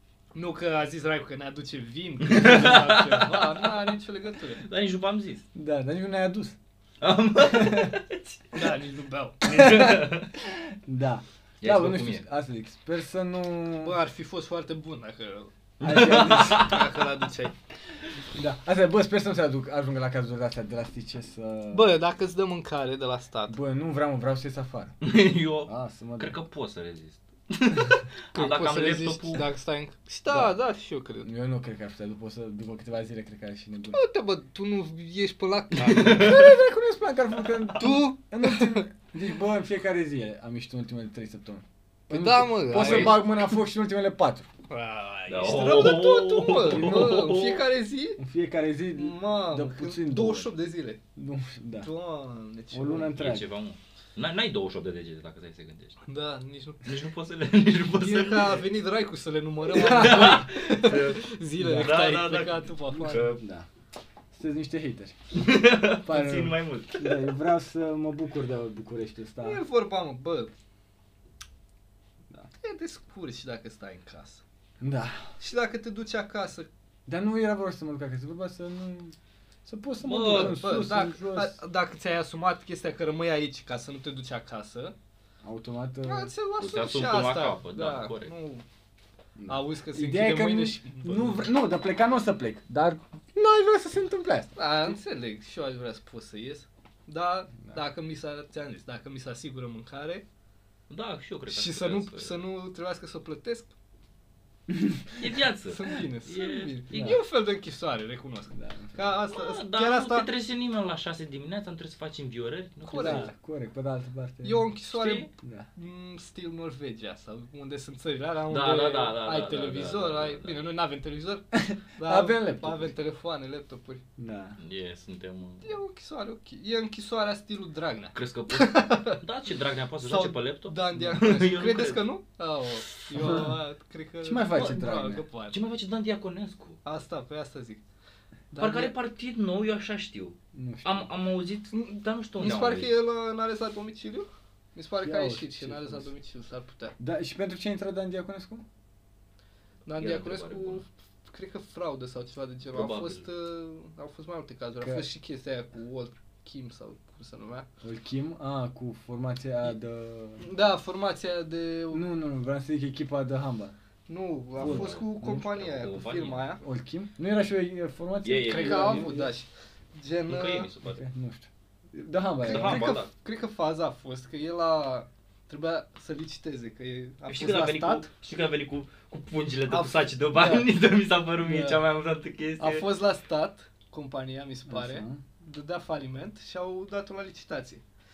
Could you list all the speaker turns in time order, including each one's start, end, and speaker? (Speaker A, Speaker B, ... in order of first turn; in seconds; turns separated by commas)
Speaker A: 0.3-4.6, Speaker B: 2.2-3.9, Speaker B: 4.6-5.4, Speaker C: 5.5-6.5, Speaker B: 7.0-8.4, Speaker C: 7.4-7.9, Speaker A: 8.5-9.7, Speaker C: 9.4-13.9, Speaker B: 9.4-10.3, Speaker B: 11.6-12.2, Speaker A: 13.8-15.5, Speaker B: 15.8-16.9, Speaker C: 15.8-16.8, Speaker A: 16.3-17.5, Speaker C: 18.3-21.9, Speaker A: 21.7-23.6, Speaker C: 23.5-25.0, Speaker B: 25.0-29.5, Speaker C: 25.6-26.4, Speaker A: 28.3-31.3, Speaker C: 30.3-30.5, Speaker C: 31.2-34.0, Speaker A: 33.9-36.5, Speaker B: 35.7-36.4, Speaker C: 36.0-44.5, Speaker A: 37.8-38.9, Speaker A: 42.1-43.5, Speaker B: 42.7-43.2, Speaker A: 44.7-48.2, Speaker B: 45.3-47.6, Speaker C: 46.6-47.3, Speaker C: 48.2-50.5, Speaker A: 48.9-51.0, Speaker C: 51.1-51.9, Speaker A: 51.8-53.1, Speaker C: 52.7-53.5, Speaker B: 53.1-56.0, Speaker A: 56.0-56.9, Speaker B: 56.8-58.6, Speaker A: 57.9-63.3, Speaker C: 59.8-60.4, Speaker B: 59.8-63.4, Speaker C: 61.6-61.9, Speaker C: 63.1-63.7, Speaker C: 64.3-65.2, Speaker B: 65.3-67.3, Speaker C: 66.0-69.6, Speaker A: 69.4-70.5, Speaker A: 72.6-74.4, Speaker C: 74.8-75.2, Speaker A: 75.4-76.7, Speaker C: 77.0-81.6, Speaker B: 80.0-80.7, Speaker A: 80.2-84.9, Speaker C: 85.4-86.3, Speaker A: 86.0-88.6, Speaker B: 86.6-88.3, Speaker C: 89.4-94.9, Speaker A: 89.5-91.5, Speaker A: 94.5-100.2, Speaker B: 100.9-102.4, Speaker A: 101.5-103.7, Speaker C: 104.7-105.2, Speaker B: 105.2-107.2, Speaker A: 105.7-110.3, Speaker C: 106.9-107.2, Speaker C: 108.5-109.1, Speaker B: 109.3-113.3, Speaker A: 112.8-113.3, Speaker C: 112.9-114.7, Speaker A: 114.4-121.4, Speaker B: 114.9-115.3, Speaker C: 115.4-115.7, Speaker B: 118.5-120.6, Speaker C: 121.5-122.9, Speaker A: 122.0-124.0, Speaker C: 124.2-124.6, Speaker B: 124.6-125.7, Speaker A: 125.6-129.2, Speaker B: 128.1-132.1, Speaker A: 130.0-135.6, Speaker B: 133.1-133.4, Speaker C: 133.2-133.6, Speaker C: 134.2-135.2, Speaker B: 135.5-136.8, Speaker A: 136.8-137.8, Speaker A: 138.5-138.9, Speaker B: 138.6-142.9, Speaker C: 140.5-141.1, Speaker A: 141.7-146.9, Speaker C: 145.0-146.1, Speaker C: 147.0-148.6, Speaker A: 149.9-157.7, Speaker B: 149.9-150.8, Speaker B: 152.7-153.2, Speaker C: 157.8-160.4, Speaker A: 160.4-162.1, Speaker C: 161.9-163.7, Speaker A: 164.1-166.6, Speaker B: 164.6-166.5, Speaker C: 164.6-165.4, Speaker C: 166.6-169.3, Speaker B: 168.2-169.1, Speaker A: 168.4-170.7, Speaker B: 170.3-171.0, Speaker C: 170.8-173.0, Speaker B: 172.4-173.1, Speaker A: 172.4-178.1, Speaker B: 177.3-182.9, Speaker A: 179.7-180.7, Speaker A: 181.4-181.8, Speaker A: 182.6-187.8, Speaker C: 184.7-185.2